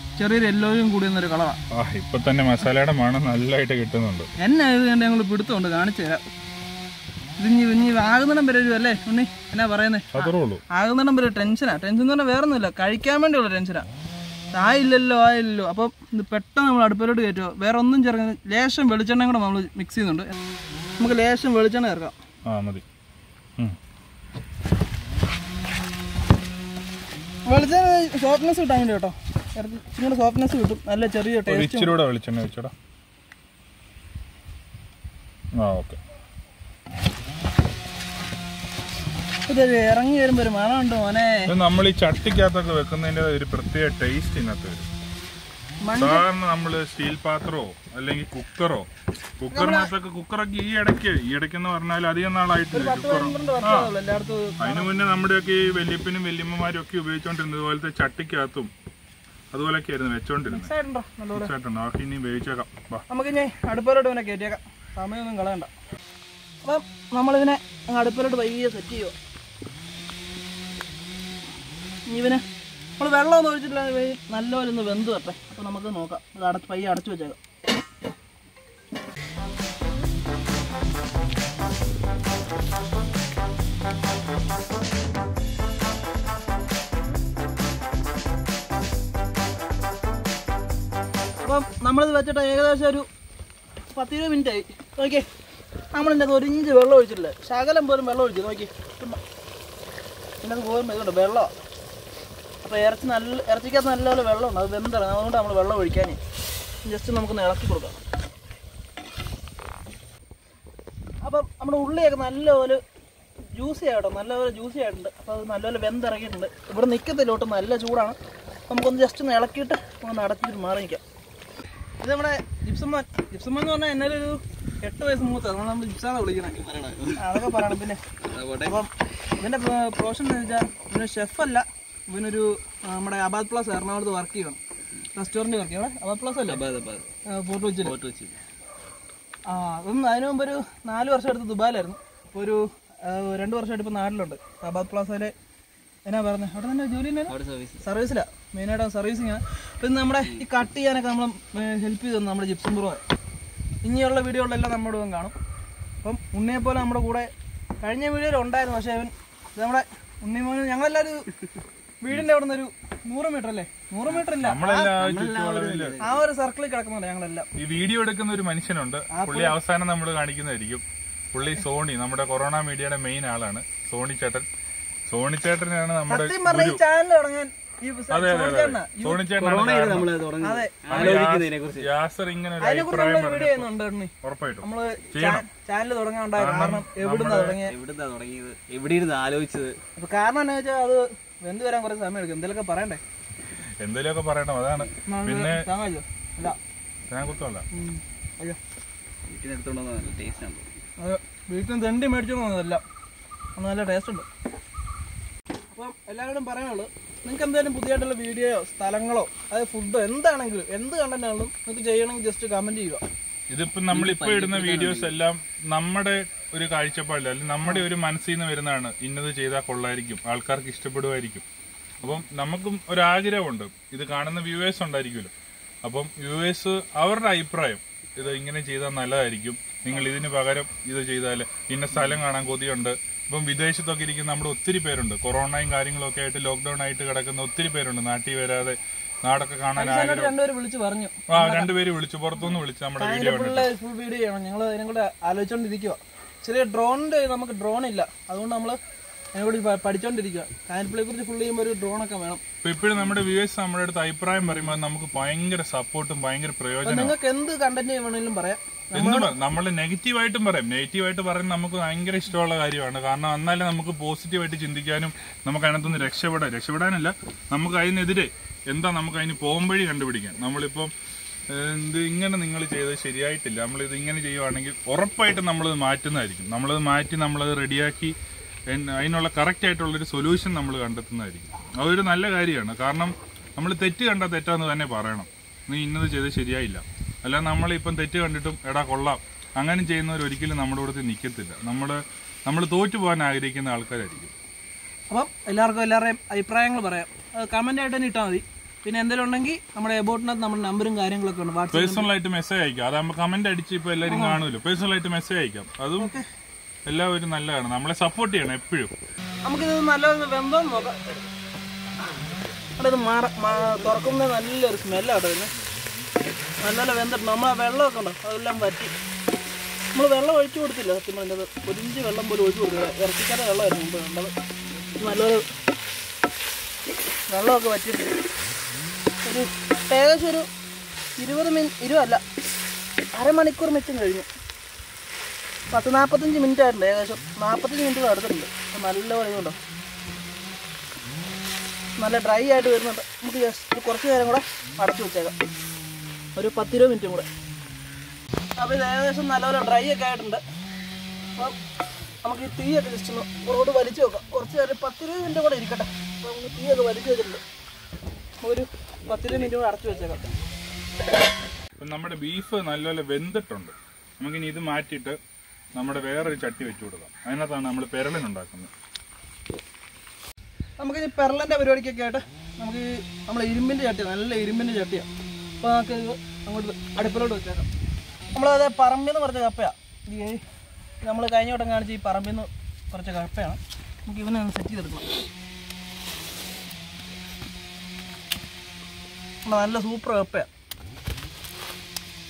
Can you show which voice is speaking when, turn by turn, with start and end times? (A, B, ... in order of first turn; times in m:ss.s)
0:00.2-0:01.6 A
0:01.7-0:04.3 B
0:04.4-0:06.2 A
0:07.4-0:13.9 A
0:10.1-0:10.6 B
0:14.5-0:20.3 A
0:21.0-0:22.1 A
0:22.5-0:22.8 B
0:27.4-0:31.9 A
0:31.4-0:32.7 B
0:35.5-0:36.0 B
0:39.5-0:41.5 A
0:41.5-0:44.9 B
0:45.8-0:46.2 A
0:46.0-0:48.9 B
0:49.4-0:53.9 B
0:49.5-0:49.9 A
0:52.7-0:54.9 A
0:54.6-0:58.7 B
0:59.5-1:00.7 B
1:00.5-1:01.5 A
1:01.3-1:03.0 B
1:03.1-1:05.7 A
1:06.6-1:09.1 A
1:12.1-1:12.4 A
1:13.0-1:17.4 A
1:31.4-1:33.1 A
1:33.9-1:35.2 A
1:35.9-1:39.2 A
1:40.4-1:41.5 A
1:42.6-1:46.2 A
1:46.8-1:48.0 A
1:51.2-1:52.8 A
1:53.6-1:58.2 A
1:58.7-2:01.0 A
2:02.0-2:08.0 A
2:06.7-2:07.5 C
2:08.3-2:08.8 C
2:08.6-2:14.6 A
2:15.2-2:16.6 A
2:16.5-2:17.1 C
2:17.3-2:17.9 A
2:17.8-2:18.4 C
2:19.5-2:25.3 A
2:26.1-2:33.0 A
2:27.3-2:27.8 C
2:33.8-2:35.3 A
2:36.0-2:37.3 A
2:37.8-2:41.2 A
2:42.0-2:45.0 A
2:44.4-2:46.0 B
2:44.9-2:46.2 C
2:46.0-2:47.5 A
2:47.6-2:54.5 B
2:49.1-2:49.6 A
2:55.1-2:56.8 B
2:56.1-2:59.2 A
2:58.1-3:00.1 B
2:59.4-3:01.9 C
3:00.4-3:01.3 A
3:00.9-3:03.7 B
3:02.6-3:07.7 A
3:04.2-3:05.4 B
3:06.4-3:07.6 B
3:07.6-3:09.8 C
3:10.0-3:13.0 A
3:13.8-3:15.6 B
3:15.0-3:16.6 A
3:17.1-3:17.6 B
3:17.7-3:18.6 A
3:19.2-3:20.7 C
3:21.0-3:22.8 A
3:23.6-3:24.3 A
3:25.7-3:33.0 A
3:33.5-3:41.4 B
3:33.9-3:35.1 C
3:42.0-3:45.3 B
3:45.8-4:00.3 B
3:59.8-4:01.7 A
4:01.3-4:03.7 B
4:03.0-4:08.8 A
4:09.3-4:12.4 A
4:12.6-4:17.1 B
4:16.8-4:19.3 A
4:18.9-4:30.9 B
4:31.5-4:38.1 B
4:38.7-4:54.3 B
4:55.1-5:02.1 A
5:01.7-5:06.1 B
5:04.1-5:04.4 A
5:06.0-5:06.2 A
5:06.8-5:08.9 B
5:09.4-5:11.0 A
5:12.8-5:15.5 A
5:16.6-5:18.9 A
5:19.9-5:24.3 A
5:25.0-5:25.4 A
5:27.3-5:28.2 A
5:29.2-5:30.5 A
5:31.2-5:32.2 A
5:33.1-5:34.3 A
5:35.7-5:39.6 A
5:42.0-5:45.4 A
5:46.4-5:47.3 A
5:48.6-5:50.4 A
5:52.2-5:57.4 A
5:58.4-6:00.2 A
6:01.8-6:05.2 B
6:05.8-6:08.7 B
6:10.8-6:15.1 A
6:15.6-6:17.7 A
6:18.3-6:20.4 A
6:21.0-6:25.0 A
6:29.4-6:30.5 A